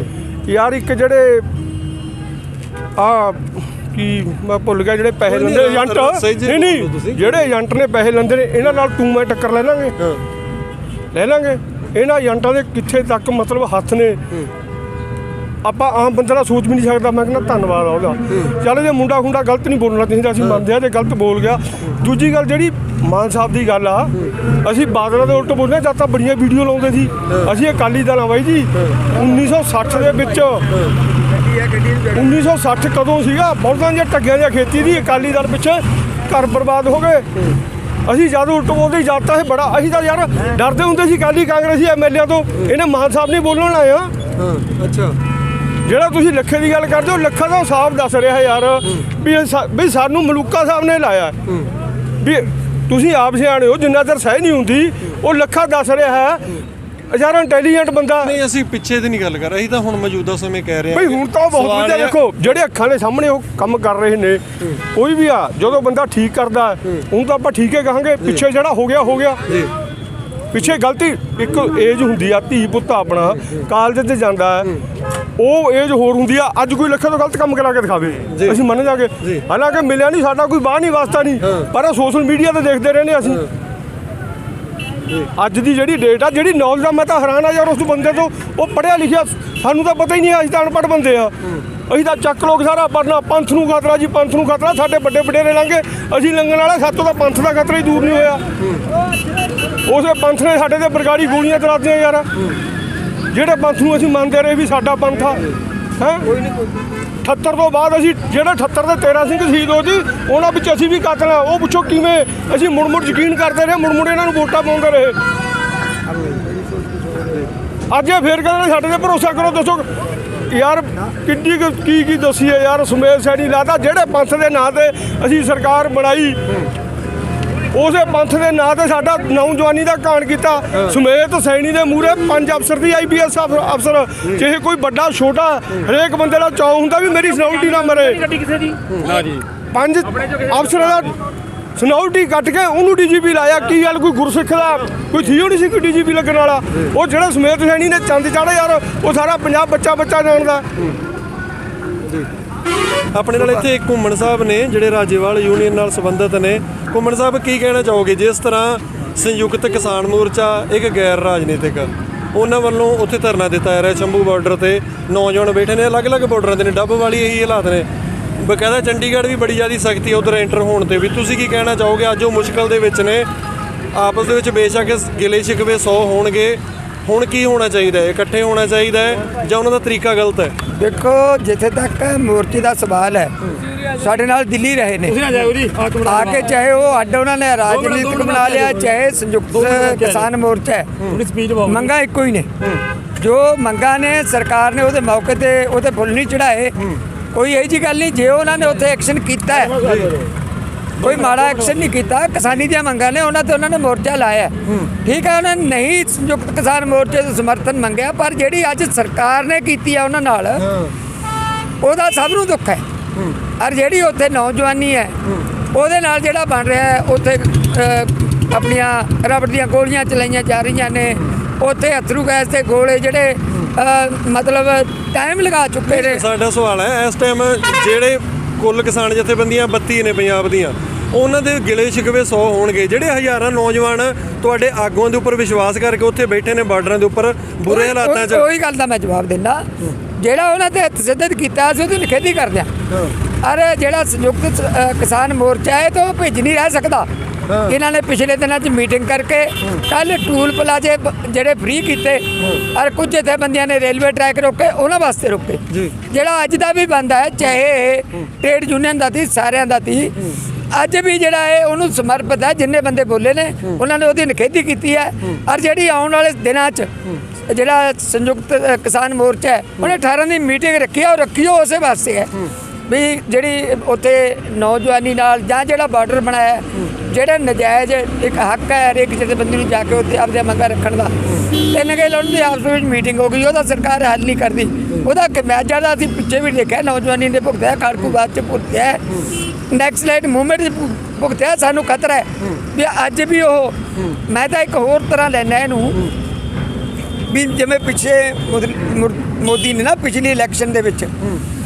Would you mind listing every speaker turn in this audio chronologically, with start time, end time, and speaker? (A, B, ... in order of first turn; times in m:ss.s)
0:00.5-0:01.5 A
0:03.0-0:09.9 A
0:05.3-0:07.2 B
0:11.1-0:14.2 A
0:15.6-0:30.6 A
0:32.0-0:37.3 A
0:38.0-0:44.1 A
0:44.4-0:45.2 B
0:45.8-0:51.4 A
0:52.2-0:58.3 A
0:58.2-1:02.2 B
1:00.9-1:04.4 A
1:04.9-1:09.4 A
1:10.5-1:14.8 A
1:15.4-1:23.4 A
1:18.3-1:18.6 B
1:25.4-1:38.4 A
1:39.8-1:42.3 A
1:43.3-1:45.4 A
1:46.0-1:46.3 A
1:47.2-1:55.2 A
1:57.9-1:59.9 A
2:00.5-2:06.4 A
2:07.7-2:18.3 A
2:18.3-2:19.4 C
2:19.7-2:21.1 A
2:21.8-2:30.6 A
2:33.1-2:47.9 B
2:48.4-2:53.3 B
2:53.9-3:00.5 B
3:00.7-3:03.3 D
3:03.9-3:05.2 D
3:05.2-3:06.4 C
3:06.0-3:10.9 D
3:07.8-3:08.7 C
3:09.6-3:10.2 C
3:11.1-3:11.8 C
3:11.6-3:12.5 D
3:13.2-3:16.8 D
3:17.3-3:19.8 D
3:19.7-3:20.2 C
3:21.0-3:30.6 D
3:21.0-3:21.3 C
3:31.8-3:32.8 D
3:33.6-3:35.2 D
3:35.7-3:46.2 D
3:45.9-3:58.5 B
3:57.6-3:59.7 D
4:00.2-4:02.7 D
4:03.4-4:07.1 D
4:07.5-4:07.7 B
4:07.6-4:20.1 D
4:20.7-4:26.9 D
4:27.4-4:32.3 D
4:32.9-4:49.0 D
4:49.7-4:56.1 D
4:57.3-5:01.1 D